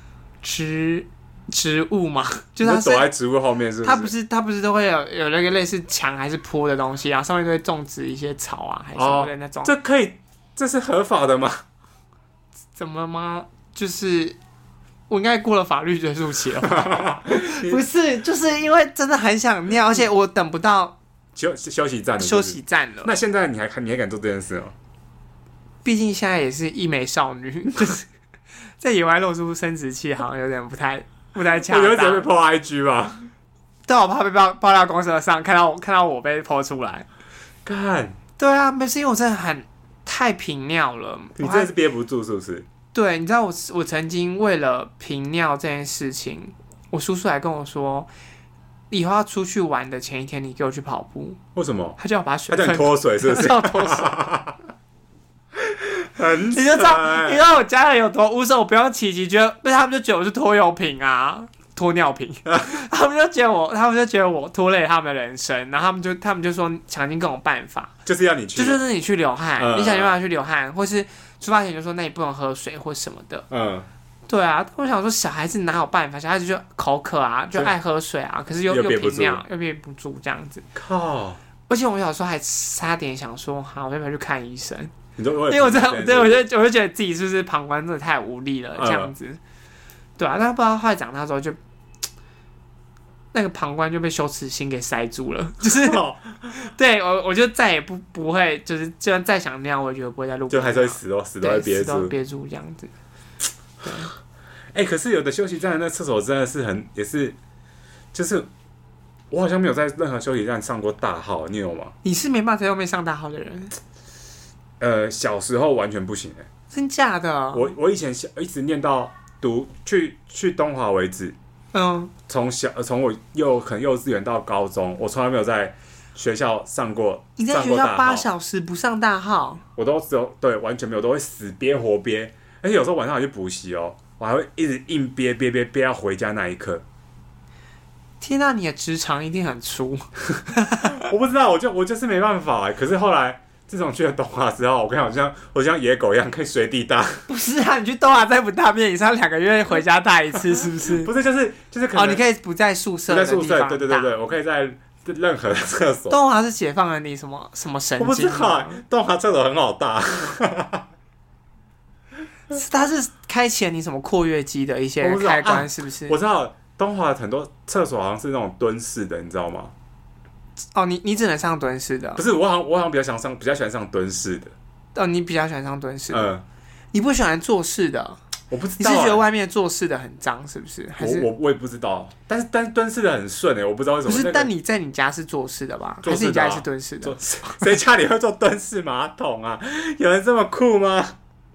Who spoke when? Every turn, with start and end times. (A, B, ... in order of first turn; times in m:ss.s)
0:00.4-0:03.1 A
0:02.6-0:04.1 B
0:03.8-0:09.7 A
0:09.0-0:11.6 B
0:12.8-0:14.4 A
0:15.1-0:21.0 A
0:16.7-0:17.8 B
0:21.3-0:24.7 B
0:22.2-0:23.1 A
0:25.8-0:28.1 A
0:28.8-0:32.3 A
0:31.6-0:33.3 B
0:33.9-0:37.0 A
0:37.6-0:38.2 B
0:38.4-0:41.7 A
0:41.4-0:42.7 B
0:42.9-0:48.1 A
0:48.9-0:51.4 A
0:51.5-0:52.0 B
0:52.0-0:54.1 A
0:52.5-0:54.6 B
0:55.7-0:57.4 B
0:56.5-1:07.9 A
1:08.0-1:08.8 B
1:08.6-1:13.4 A
1:09.6-1:10.1 B
1:13.5-1:13.9 B
1:14.3-1:20.6 A
1:18.7-1:19.4 B
1:20.7-1:21.4 B
1:21.7-1:24.9 A
1:25.2-1:26.4 B
1:25.5-1:29.4 A
1:28.8-1:29.1 B
1:30.2-1:31.6 A
1:33.3-1:42.9 A
1:35.6-1:36.5 B
1:40.5-1:42.1 B
1:43.8-1:44.1 A
1:44.7-1:47.4 B
1:48.1-1:48.5 B
1:49.3-1:51.9 B
1:52.0-1:53.8 A
1:54.8-1:56.5 B
1:56.7-1:57.7 A
1:57.5-2:01.4 B
2:01.7-2:02.1 A
2:02.3-2:08.3 B
2:07.4-2:09.6 A
2:09.8-2:16.8 B
2:18.2-2:21.0 A
2:20.8-2:27.2 B
2:27.3-2:31.1 A
2:30.8-2:32.2 B
2:31.9-2:34.1 A
2:33.1-2:36.2 B
2:36.1-2:38.8 A
2:38.0-2:40.8 B
2:42.5-2:46.2 A
2:45.0-2:49.7 B
2:50.7-2:52.2 A
2:52.2-2:54.5 B
2:54.9-2:56.3 A
2:56.1-2:56.4 B
2:56.9-2:58.2 A
2:58.5-2:59.2 B
2:58.8-3:01.3 A
3:01.0-3:04.5 B
3:04.1-3:07.6 A
3:06.0-3:11.2 B